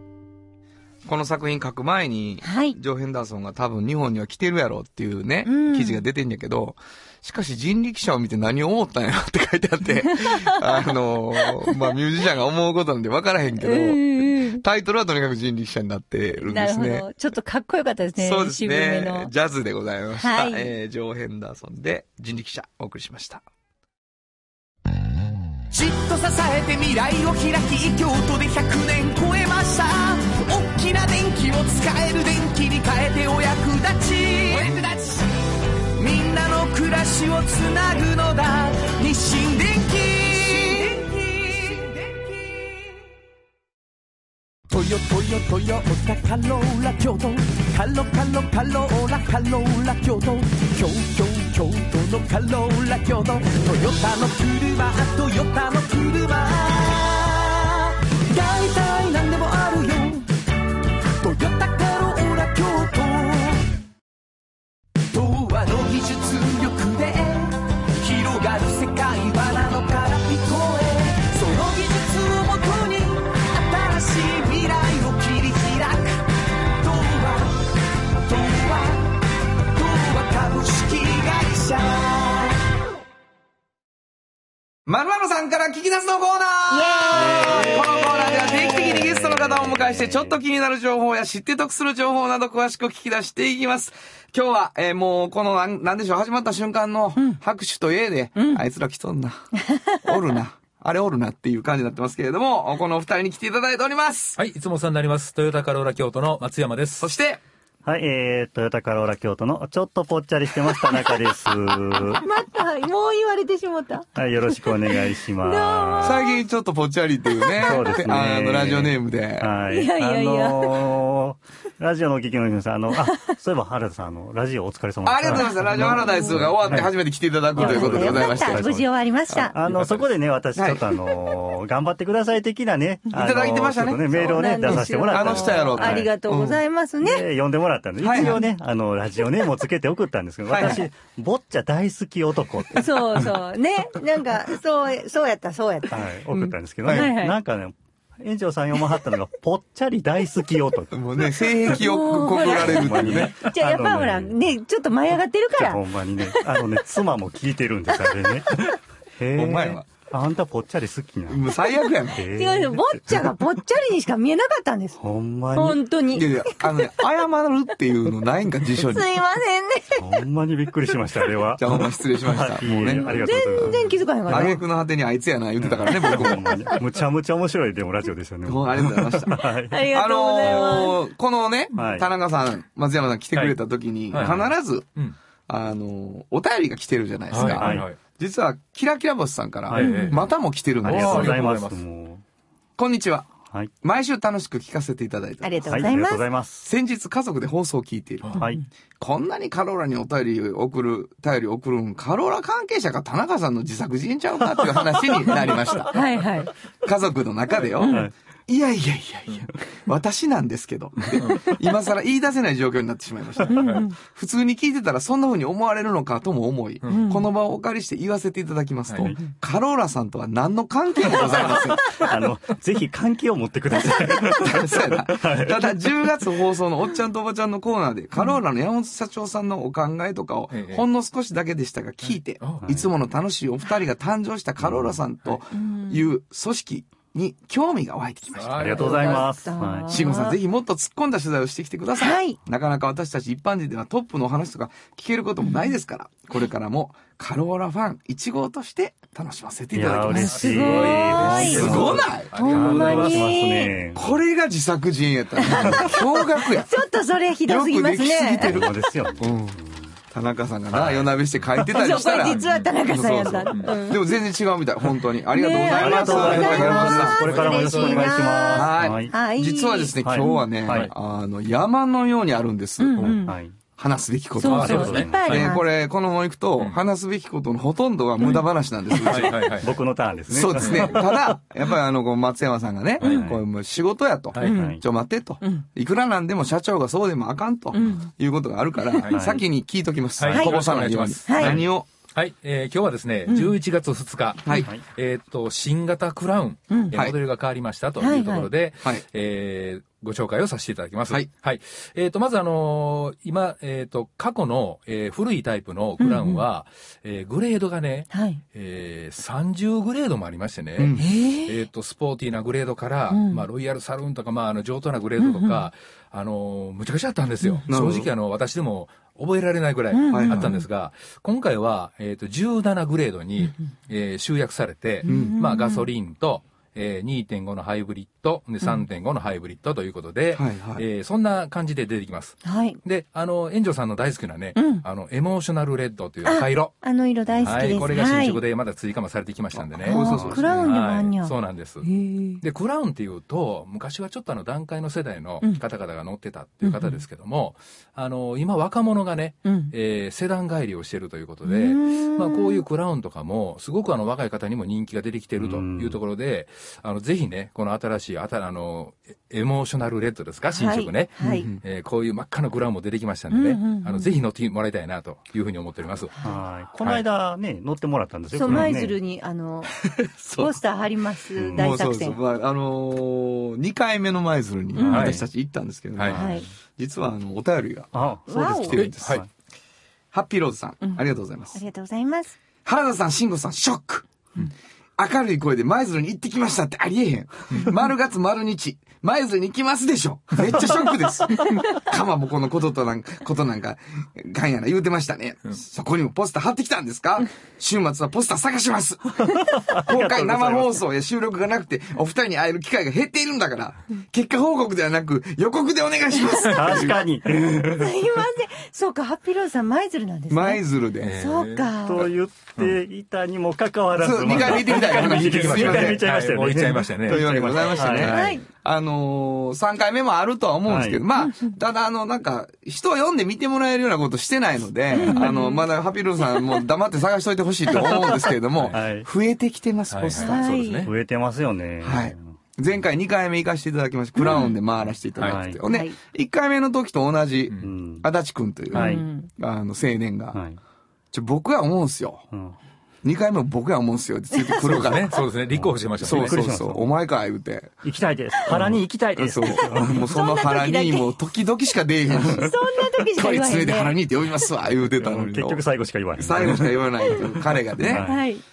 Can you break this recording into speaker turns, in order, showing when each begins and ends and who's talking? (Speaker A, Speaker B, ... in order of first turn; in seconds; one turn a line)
Speaker A: 1.0-17.1
Speaker B: 2.4-2.8
Speaker B: 5.4-6.0
Speaker B: 10.0-11.8
Speaker B: 13.6-14.6
Speaker B: 16.4-19.3
Speaker A: 18.2-23.4
Speaker B: 20.2-20.7
Speaker C: 25.7-35.3
Speaker A: 34.5-34.9
Speaker C: 36.0-42.6
Speaker A: 40.3-40.9
Speaker C: 44.7-60.3
Speaker C: 61.2-63.7
Speaker C: 65.1-77.6
Speaker C: 78.2-79.1
Speaker C: 79.7-82.6
Speaker A: 84.8-99.5
Speaker B: 86.7-88.7
Speaker D: 87.4-90.4
Speaker B: 98.3-98.6
Speaker B: 99.7-100.1
Speaker A: 100.0-104.4
Speaker E: 104.3-107.1
Speaker A: 107.0-107.4
Speaker D: 107.8-112.2
Speaker B: 112.1-116.4
Speaker D: 114.2-116.2
Speaker A: 116.0-119.5
Speaker B: 117.3-117.8
Speaker D: 117.6-126.9
Speaker B: 119.7-121.0
Speaker B: 123.1-123.3
Speaker A: 125.0-128.6
Speaker B: 125.3-126.4
Speaker D: 127.5-128.9
Speaker B: 127.5-129.5
Speaker A: 129.3-130.0
Speaker D: 129.5-136.1
Speaker A: 130.6-130.9
Speaker A: 133.1-136.6
Speaker B: 134.2-137.2
Speaker D: 137.0-143.3
Speaker A: 138.0-138.4
Speaker B: 138.1-138.4
Speaker A: 140.5-140.8
Speaker B: 142.7-146.1
Speaker D: 145.9-151.0
Speaker B: 146.9-147.3
Speaker A: 150.9-153.4
Speaker B: 151.6-156.6
Speaker D: 151.7-154.4
Speaker D: 155.6-161.6
Speaker A: 159.3-159.8
Speaker A: 161.3-162.2
Speaker D: 162.1-163.4
Speaker B: 162.3-165.0
Speaker D: 165.0-165.8
Speaker B: 165.5-167.1
Speaker A: 166.1-169.1
Speaker B: 168.8-170.2
Speaker D: 170.0-174.6
Speaker A: 171.6-176.8
Speaker B: 172.9-174.6
Speaker D: 175.6-179.9
Speaker B: 175.9-176.5
Speaker A: 178.4-184.9
Speaker B: 179.7-181.0
Speaker D: 181.7-182.1
Speaker E: 184.1-185.2
Speaker D: 184.2-184.4
Speaker A: 185.5-191.4
Speaker E: 187.3-188.0
Speaker D: 187.3-187.9
Speaker D: 189.7-190.1
Speaker E: 189.8-190.2
Speaker B: 189.8-190.1
Speaker E: 190.8-191.8
Speaker D: 190.8-192.2
Speaker A: 192.8-193.3
Speaker A: 193.8-195.8
Speaker B: 195.4-196.2
Speaker D: 195.6-196.6
Speaker A: 196.6-198.4
Speaker A: 199.0-206.0
Speaker B: 205.9-206.5
Speaker A: 206.8-222.1
Speaker B: 207.8-208.1
Speaker D: 207.8-208.1
Speaker E: 213.5-213.8
Speaker B: 213.5-213.9
Speaker B: 216.9-217.3
Speaker E: 218.9-219.1
Speaker D: 221.1-226.1
Speaker A: 223.8-239.3
Speaker E: 230.5-230.8
Speaker E: 232.1-232.8
Speaker D: 232.6-232.9
Speaker B: 235.5-236.0
Speaker E: 238.3-239.3
Speaker D: 238.6-239.9
Speaker B: 238.8-240.4
Speaker A: 239.9-253.1
Speaker B: 242.0-242.4
Speaker D: 249.7-254.0
Speaker E: 250.1-253.2
Speaker B: 250.1-253.8
Speaker A: 253.9-256.7
Speaker B: 255.4-258.6
Speaker A: 257.5-259.6
Speaker D: 258.4-259.9
Speaker A: 260.1-267.2
Speaker B: 261.7-264.1
Speaker E: 262.2-262.8
Speaker E: 263.5-263.7
Speaker B: 265.3-270.5
Speaker D: 265.6-269.1
Speaker E: 266.1-268.1
Speaker A: 268.5-273.2
Speaker D: 270.0-270.9
Speaker B: 272.8-273.4
Speaker D: 273.0-273.6
Speaker A: 273.8-279.6
Speaker B: 274.4-275.7
Speaker E: 274.5-275.5
Speaker D: 274.5-275.4
Speaker E: 279.0-279.7
Speaker D: 279.4-281.4
Speaker A: 280.3-291.9
Speaker E: 280.6-281.0
Speaker D: 283.0-283.4
Speaker B: 284.4-284.8
Speaker D: 284.4-284.8
Speaker B: 285.4-285.6
Speaker B: 287.7-288.1
Speaker E: 289.0-289.4
Speaker D: 289.1-289.4
Speaker E: 290.2-336.9
Speaker B: 290.3-290.5
Speaker B: 291.2-291.6
Speaker B: 293.3-293.5
Speaker A: 294.4-294.7
Speaker B: 296.7-296.9
Speaker B: 298.0-298.5
Speaker B: 306.0-306.4
Speaker B: 308.1-308.4
Speaker A: 310.8-311.0
Speaker B: 311.0-311.6
Speaker B: 313.1-313.4
Speaker B: 315.2-315.6
Speaker A: 317.7-318.1
Speaker B: 319.9-320.6
Speaker A: 320.1-320.5
Speaker B: 325.0-325.9
Speaker A: 325.1-325.3
Speaker A: 330.3-330.8
Speaker B: 332.4-332.8
Speaker B: 334.6-334.9
Speaker B: 336.2-338.4
Speaker E: 337.4-341.9
Speaker D: 337.5-337.8
Speaker A: 339.5-340.5
Speaker B: 339.8-342.4
Speaker E: 342.4-366.1
Speaker B: 346.6-347.0
Speaker B: 349.4-349.7
Speaker B: 351.4-352.6
Speaker D: 355.4-356.0
Speaker B: 360.5-361.5
Speaker A: 361.2-361.6
Speaker B: 363.3-364.1
Speaker B: 366.1-366.4
Speaker D: 366.2-368.9
Speaker B: 368.3-369.7
Speaker A: 369.8-370.6
Speaker B: 370.4-372.2
Speaker D: 371.4-371.7
Speaker A: 371.5-379.2
Speaker B: 374.7-375.1
Speaker D: 374.9-375.1
Speaker E: 374.9-375.2
Speaker E: 375.9-376.2
Speaker D: 376.1-376.4
Speaker B: 376.1-376.4
Speaker D: 377.9-379.3
Speaker B: 378.3-378.8
Speaker E: 378.8-379.2
Speaker A: 380.1-381.6
Speaker B: 381.5-382.4
Speaker A: 382.6-384.1
Speaker A: 385.0-407.0
Speaker D: 399.5-400.8
Speaker D: 406.5-408.0
Speaker B: 407.7-412.1
Speaker A: 410.3-411.2
Speaker E: 411.0-411.7
Speaker D: 411.8-418.2
Speaker A: 413.9-416.1
Speaker E: 414.3-417.3
Speaker A: 417.1-430.5
Speaker B: 418.0-418.5
Speaker D: 420.6-421.0
Speaker B: 421.2-421.5
Speaker B: 424.9-425.7
Speaker D: 427.8-429.1
Speaker E: 429.9-430.9
Speaker B: 430.1-430.9
Speaker D: 430.8-432.3
Speaker A: 431.8-440.4
Speaker B: 434.2-434.6
Speaker D: 435.2-435.6
Speaker B: 435.6-436.0
Speaker D: 437.6-438.0
Speaker D: 438.7-439.0
Speaker B: 438.7-439.3
Speaker D: 440.3-440.6
Speaker A: 441.1-442.2
Speaker A: 443.0-445.2
Speaker E: 444.5-446.4
Speaker D: 445.5-446.9
Speaker A: 446.0-447.7
Speaker D: 447.8-450.1
Speaker A: 448.4-455.6
Speaker B: 450.1-451.1
Speaker D: 452.1-452.5
Speaker B: 452.2-453.9
Speaker D: 454.8-458.2
Speaker A: 456.2-458.0
Speaker B: 457.9-458.4